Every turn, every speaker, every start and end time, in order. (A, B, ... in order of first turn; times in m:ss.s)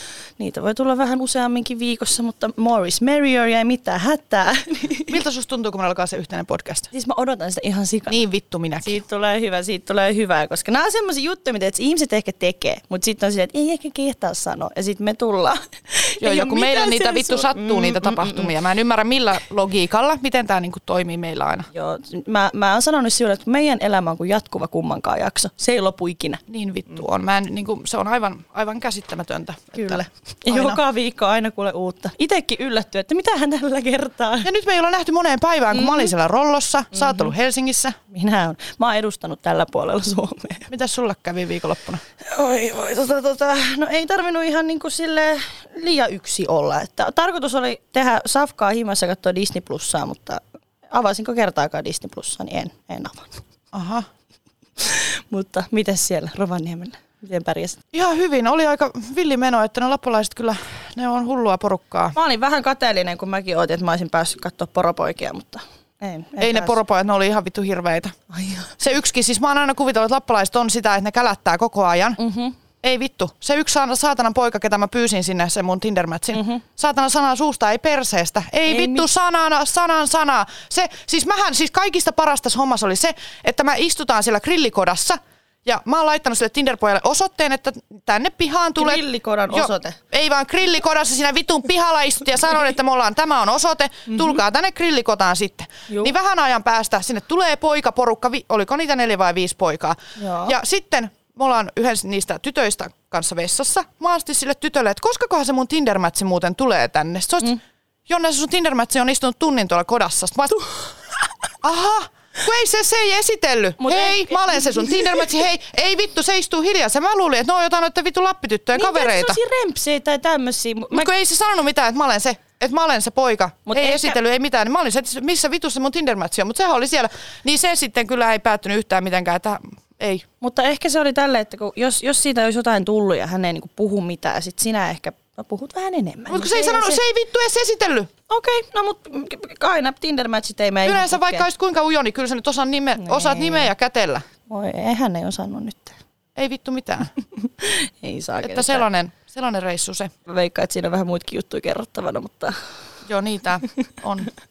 0:00.4-0:05.2 A
0:05.1-0:06.9 B
0:06.9-0:08.2 A
0:08.1-0:09.0 B
0:08.8-0:18.5 A
0:16.2-0:21.7 B
0:21.7-0:26.4 A
0:26.5-0:30.8 B
0:29.8-0:34.5 A
0:34.4-0:38.0 B
0:35.8-0:36.1 A
0:38.1-0:40.7 A
0:40.7-0:42.0 B
0:42.2-0:53.4 A
0:53.7-0:54.1 B
0:54.8-0:57.8 A
0:57.9-1:02.2 B
1:02.2-1:06.8 A
1:06.4-1:08.1 B
1:08.4-1:08.7 A
1:08.8-1:12.2 B
1:12.2-1:12.5 A
1:12.8-1:50.6 B
1:16.3-1:16.6 A
1:18.7-1:19.1 A
1:28.8-1:30.0 A
1:40.2-1:40.6 A
1:51.6-1:59.4 B
1:53.8-1:55.4 A
1:58.7-2:01.1 A
2:00.9-2:10.2 B
2:03.7-2:04.2 A
2:10.4-2:17.0 A
2:16.3-2:18.1 B
2:18.3-2:21.5 A
2:20.8-2:24.2 B
2:23.0-2:23.7 A
2:24.5-2:26.0 A
2:26.4-2:27.1 B
2:27.4-2:28.9 A
2:28.4-2:30.1 B
2:30.3-2:32.5 A
2:33.0-2:34.3 B